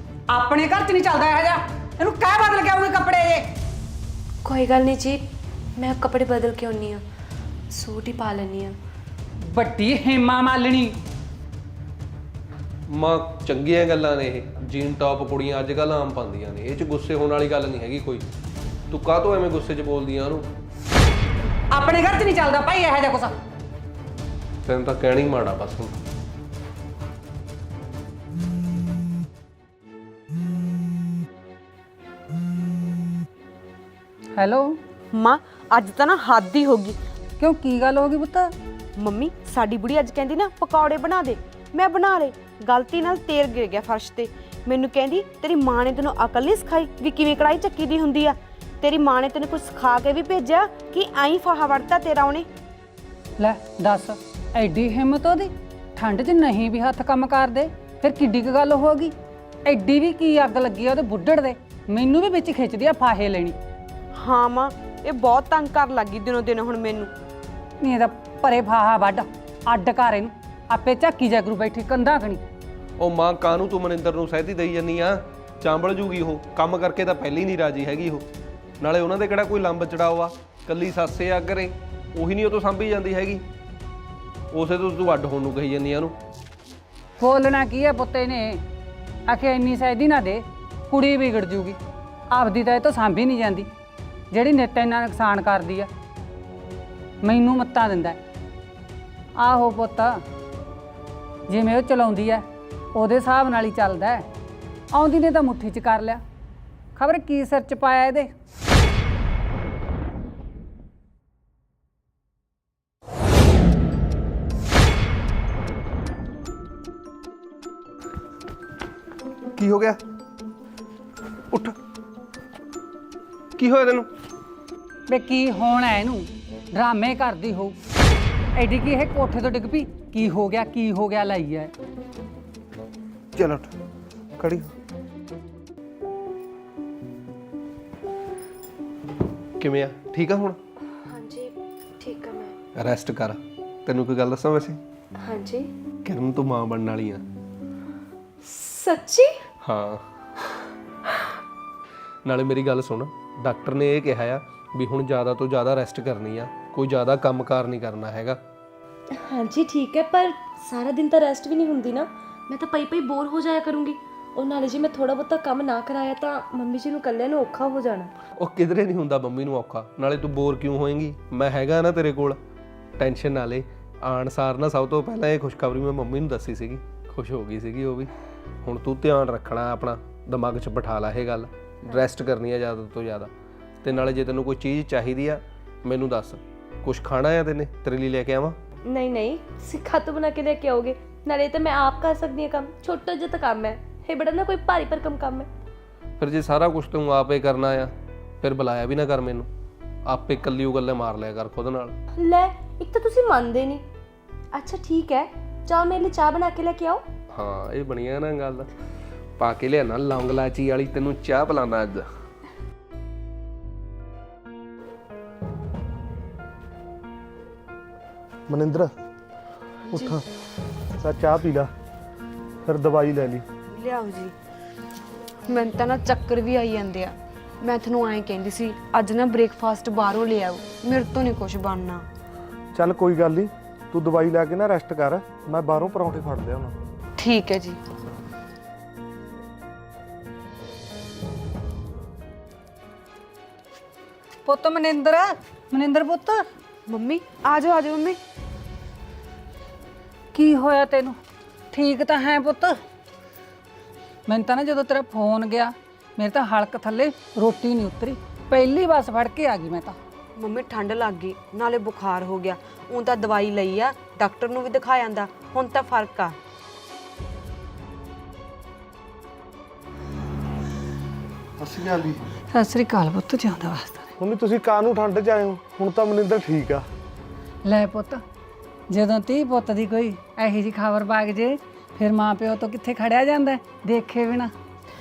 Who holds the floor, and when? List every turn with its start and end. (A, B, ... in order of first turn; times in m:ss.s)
0:00.3-0:03.5 A
0:04.4-0:05.2 B
0:05.8-0:07.0 B
0:07.7-0:08.8 B
0:09.4-0:11.0 A
0:12.9-0:18.2 C
0:18.9-0:20.5 C
0:21.7-0:23.4 A
0:24.6-0:26.0 C
0:34.4-0:34.8 A
0:35.1-0:37.0 D
0:37.4-0:38.5 A
0:39.0-0:52.5 D
0:53.4-0:59.1 A
0:59.7-1:03.6 A
1:04.1-1:07.1 D
1:07.8-1:12.4 A
1:13.0-1:18.2 C
1:18.8-1:23.4 C
1:24.5-1:26.1 C
1:27.2-1:28.6 A
1:29.3-1:31.8 A
1:32.3-1:33.7 A
1:34.3-1:35.9 A
1:37.2-1:38.2 A
1:39.4-1:40.2 A
1:41.5-1:44.3 A
1:44.9-1:46.2 A
1:46.9-1:48.3 A
1:59.5-2:00.0 C
2:01.5-2:01.8 C
2:03.6-2:04.1 C
2:05.1-2:07.8 A
2:08.6-2:11.7 A
2:13.3-2:13.7 C
2:14.4-2:14.7 C
2:19.6-2:20.6 C
2:21.1-2:22.6 B
2:22.8-2:24.8 C
2:25.2-2:25.7 B
2:26.0-2:27.2 C
2:28.4-2:29.4 B
2:29.6-2:30.0 C
2:32.2-2:38.4 C
2:39.2-2:48.1 B
2:48.4-2:52.4 C
2:53.0-2:58.1 C
2:58.6-3:03.3 C
3:03.8-3:08.6 C
3:08.9-3:15.5 B
3:16.2-3:19.5 C
3:20.1-3:22.0 C
3:22.2-3:23.8 B
3:24.5-3:27.0 B
3:27.3-3:28.7 C
3:29.4-3:32.1 C
3:38.5-3:38.9 E
3:39.9-3:40.2 E
3:41.0-3:41.7 E
3:42.6-3:43.4 E
3:43.7-3:44.3 D
3:45.5-3:52.1 D
3:52.7-3:56.7 E
3:57.2-3:57.8 D
4:04.4-4:06.4 A
4:06.9-4:08.2 D
4:10.3-4:11.2 A
4:11.7-4:12.8 A
4:14.2-4:20.0 A
4:20.4-4:26.4 D
4:31.6-4:32.2 E
4:32.5-4:34.1 A
4:34.2-4:36.9 E
4:37.6-4:38.2 A
4:38.9-4:44.5 A